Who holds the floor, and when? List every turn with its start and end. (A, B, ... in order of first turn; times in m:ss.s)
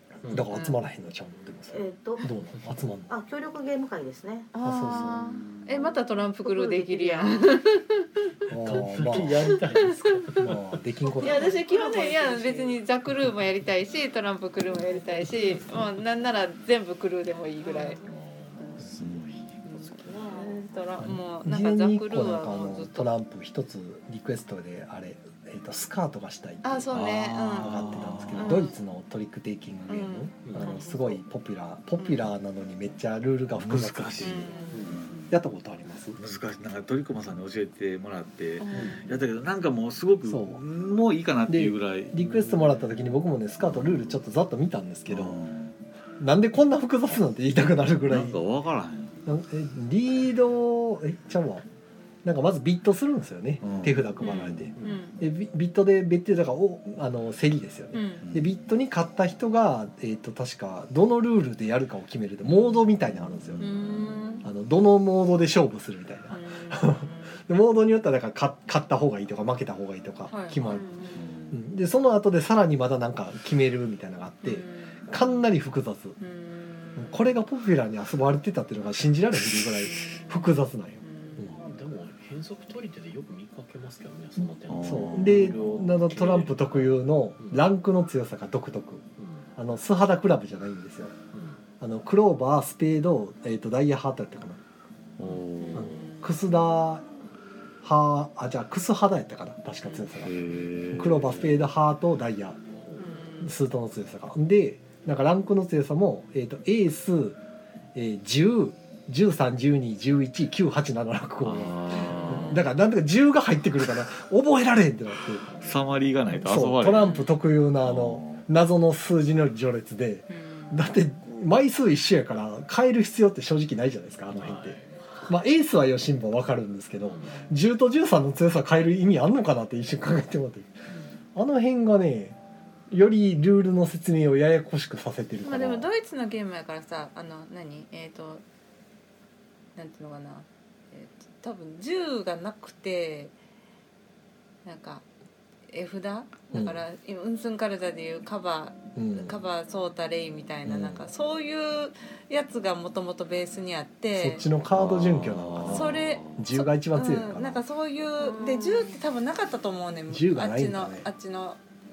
0:00.2-0:00.6 A
0:00.2-0:03.1 B
0:00.5-0:00.8 C
0:01.7-0:02.3 D
0:03.1-0:04.5 D
0:04.5-0:08.2 C
0:04.6-0:05.2 B
0:06.4-0:07.5 D
0:08.5-0:11.6 B
0:08.5-0:10.5 A
0:09.4-0:10.3 C
0:11.1-0:12.8 D
0:11.2-0:18.0 C
0:15.5-0:15.8 A
0:17.6-0:18.1 D
0:17.9-0:20.4 A
0:19.0-0:19.4 E
0:19.6-0:23.1 C
0:19.8-0:20.6 D
0:21.0-0:26.8 B
0:26.6-0:27.7 C
0:26.9-0:28.6 E
0:27.6-0:34.5 B
0:28.4-0:28.7 C
0:29.9-0:31.2 C
0:30.4-0:30.8 A
0:32.0-0:32.3 C
0:33.6-0:35.4 E
0:33.8-0:35.3 A
0:34.2-0:34.9 C
0:35.3-0:36.2 B
0:36.2-0:42.8 E
0:38.6-0:39.1 C
0:38.7-0:39.1 A
0:40.2-0:40.6 B
0:41.5-0:45.4 B
0:42.3-0:42.6 A
0:43.6-0:44.2 E
0:45.1-0:45.8 E
0:46.2-0:48.4 B
0:48.0-0:49.2 E
0:49.2-0:51.6 B
0:52.2-1:03.7 B
0:53.6-0:54.7 E
0:54.2-0:55.2 C
0:54.8-0:55.1 A
0:57.9-0:58.2 C
0:58.2-0:58.5 E
1:03.0-1:03.8 E
1:03.6-1:04.4 C
1:04.4-1:10.9 B
1:06.3-1:07.4 C
1:10.3-1:11.6 C
1:10.7-1:11.3 D
1:11.5-1:16.2 B
1:14.4-1:15.3 C
1:16.2-1:17.3 C
1:17.0-1:21.6 B
1:19.8-1:21.6 C
1:21.4-1:27.7 A
1:24.4-1:29.0 B
1:24.7-1:25.8 E
1:29.2-1:29.5 A
1:29.6-1:31.1 B
1:31.3-1:31.6 A
1:31.8-1:34.6 B
1:35.2-1:36.1 E
1:35.3-1:36.4 C
1:35.7-1:37.0 B
1:37.8-1:40.4 B
1:40.2-1:41.7 E
1:40.9-1:42.6 B
1:43.0-1:43.5 C
1:43.4-1:47.4 B
1:47.9-1:55.5 B
1:51.4-1:52.6 E
1:51.7-1:52.4 A
1:51.9-1:52.6 C
1:55.4-1:56.0 A
1:55.6-1:57.2 E
1:56.3-2:10.8 B
1:57.0-1:57.3 C
1:57.8-1:58.5 E
2:00.3-2:00.8 C
2:04.3-2:05.2 A
2:07.1-2:07.5 A
2:11.3-2:12.4 B
2:12.9-2:15.9 B
2:15.4-2:18.4 C
2:19.8-2:23.3 C
2:24.6-2:25.0 C
2:25.7-2:34.4 C
2:26.5-2:26.8 B
2:28.9-2:29.4 B
2:30.6-2:31.1 B
2:34.1-2:37.6 B
2:34.7-2:36.4 E
2:35.7-2:41.6 C
2:38.2-2:39.0 D
2:40.1-2:41.1 B